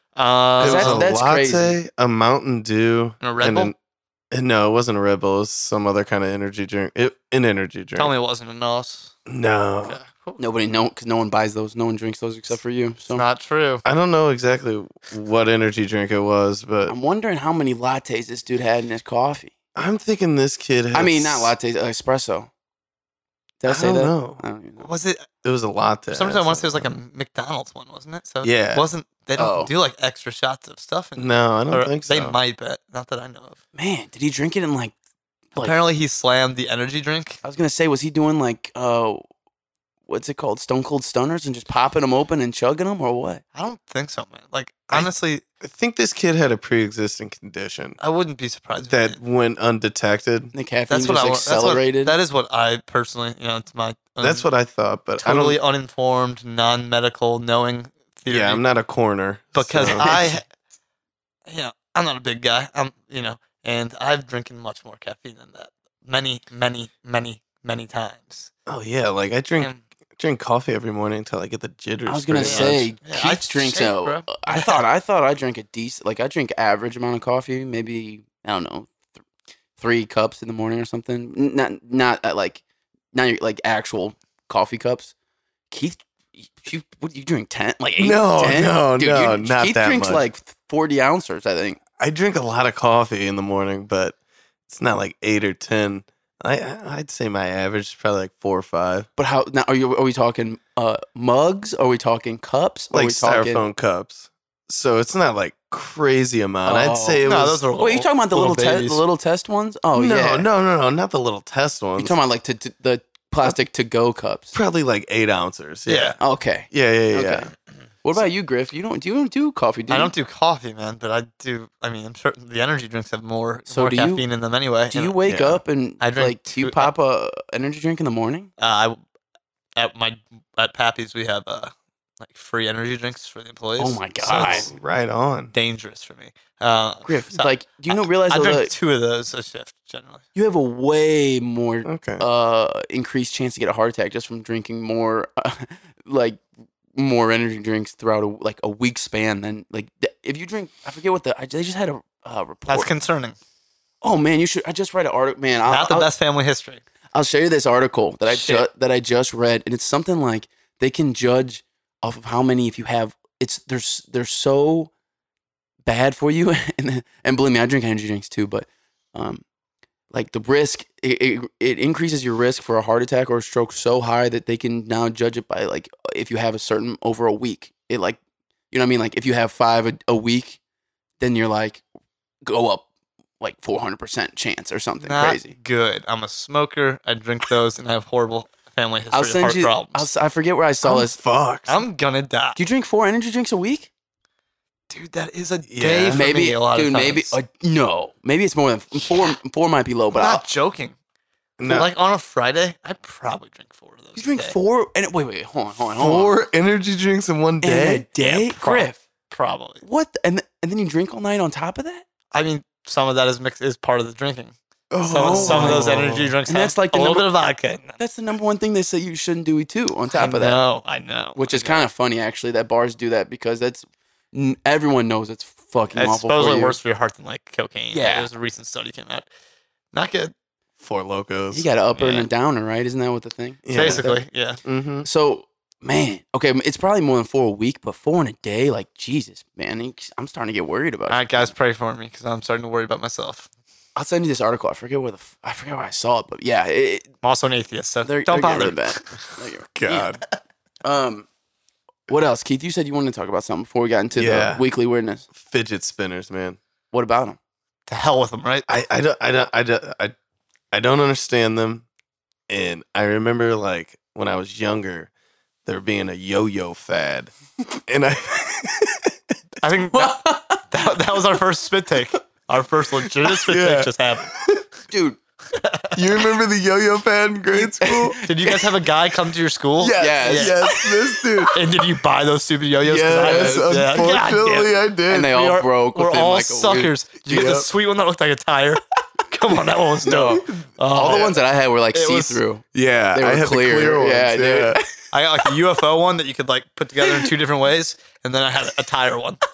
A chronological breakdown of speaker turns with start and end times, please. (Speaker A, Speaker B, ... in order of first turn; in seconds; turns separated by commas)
Speaker A: 0.2-1.1, Speaker B: 0.6-1.8, Speaker C: 0.6-3.7, Speaker A: 3.2-3.7, Speaker C: 4.3-8.1, Speaker A: 8.0-9.2, Speaker C: 9.3-10.0, Speaker A: 9.8-10.4, Speaker B: 10.4-13.2, Speaker A: 13.1-13.8, Speaker C: 13.8-16.9, Speaker B: 16.9-19.5, Speaker C: 19.8-21.6, Speaker B: 20.9-22.5, Speaker B: 23.6-24.9, Speaker C: 23.7-24.4, Speaker A: 24.8-25.3, Speaker C: 25.4-26.9, Speaker A: 26.1-33.6, Speaker C: 28.4-28.8, Speaker B: 29.4-29.7, Speaker C: 31.2-32.4, Speaker B: 33.8-34.9, Speaker A: 35.6-37.4, Speaker B: 37.4-39.2, Speaker B: 40.1-43.4, Speaker A: 43.5-45.4, Speaker C: 45.6-48.0, Speaker A: 48.0-49.2, Speaker C: 48.9-50.5, Speaker B: 50.5-52.2, Speaker A: 50.9-54.5, Speaker C: 54.2-55.6, Speaker A: 55.2-58.6, Speaker C: 58.3-60.4, Speaker A: 59.5-60.5, Speaker A: 61.5-68.5, Speaker C: 68.7-72.9, Speaker B: 72.1-78.9, Speaker A: 72.4-74.8, Speaker B: 79.8-82.6, Speaker B: 83.1-85.1, Speaker B: 85.7-91.8, Speaker C: 88.0-90.2, Speaker C: 92.0-94.2, Speaker C: 94.7-99.1, Speaker B: 99.2-103.6, Speaker C: 102.9-107.6, Speaker B: 106.7-107.2, Speaker A: 107.2-109.0, Speaker B: 107.8-110.5, Speaker C: 109.9-112.2, Speaker B: 112.0-114.6, Speaker C: 114.5-116.2, Speaker A: 115.9-116.2, Speaker B: 116.2-117.5, Speaker C: 116.7-117.5, Speaker B: 118.0-120.1, Speaker A: 119.9-125.2, Speaker B: 123.7-124.2, Speaker B: 124.9-128.5, Speaker C: 125.3-125.6, Speaker A: 126.0-126.9, Speaker A: 128.6-129.0, Speaker A: 129.8-134.7, Speaker B: 133.8-134.7, Speaker C: 134.3-135.5, Speaker A: 135.5-140.2, Speaker B: 137.1-138.7, Speaker B: 140.3-146.4, Speaker C: 141.9-142.2, Speaker B: 146.9-152.9, Speaker A: 152.7-153.4, Speaker B: 154.0-156.1, Speaker A: 155.7-156.8, Speaker B: 157.1-164.9, Speaker A: 158.3-158.7, Speaker B: 165.8-169.4, Speaker B: 170.1-178.2, Speaker B: 178.7-180.6, Speaker B: 181.2-181.8, Speaker B: 182.5-182.9, Speaker B: 183.4-185.5, Speaker A: 185.0-190.1, Speaker B: 189.1-191.2, Speaker C: 190.8-191.8, Speaker A: 191.7-192.6, Speaker B: 192.6-193.9, Speaker A: 194.9-197.4, Speaker C: 195.7-196.2, Speaker B: 196.1-200.4, Speaker A: 200.1-201.0, Speaker C: 201.6-201.9, Speaker A: 201.6-204.6, Speaker B: 204.2-206.3, Speaker C: 206.0-208.1, Speaker B: 207.6-209.0, Speaker A: 208.2-209.8, Speaker B: 209.8-212.1, Speaker A: 212.3-218.0, Speaker C: 214.9-216.3, Speaker B: 215.1-215.9, Speaker B: 216.5-217.3, Speaker B: 218.0-220.6, Speaker A: 220.1-221.8, Speaker B: 221.4-226.8, Speaker A: 226.0-229.3, Speaker B: 227.9-228.3, Speaker A: 229.9-230.3, Speaker C: 230.8-231.7, Speaker B: 231.5-234.2, Speaker A: 232.0-232.3, Speaker C: 233.7-234.1, Speaker A: 233.7-234.6, Speaker C: 234.7-235.1, Speaker B: 235.0-241.5, Speaker A: 241.1-243.5, Speaker B: 244.0-247.1, Speaker A: 247.2-249.1, Speaker B: 248.1-250.1, Speaker C: 249.7-250.2, Speaker B: 250.8-251.3, Speaker B: 252.1-255.3, Speaker C: 254.2-254.6, Speaker C: 255.3-256.6, Speaker B: 256.9-257.4, Speaker A: 257.9-258.7, Speaker C: 258.7-260.1, Speaker C: 260.7-261.9, Speaker C: 262.5-265.1, Speaker C: 265.7-269.3, Speaker A: 269.6-274.3, Speaker B: 269.9-270.7, Speaker C: 273.4-274.6, Speaker B: 274.9-275.2, Speaker A: 275.6-275.9, Speaker C: 275.9-278.2, Speaker B: 277.8-278.6, Speaker A: 278.2-280.6, Speaker C: 279.8-281.6, Speaker B: 279.8-281.5, Speaker A: 281.5-291.4, Speaker C: 282.8-285.4, Speaker B: 283.2-283.8, Speaker B: 285.1-286.9, Speaker C: 287.3-287.7, Speaker B: 290.0-292.6, Speaker A: 291.9-292.4, Speaker C: 292.7-294.8, Speaker B: 293.1-294.8, Speaker A: 295.1-299.4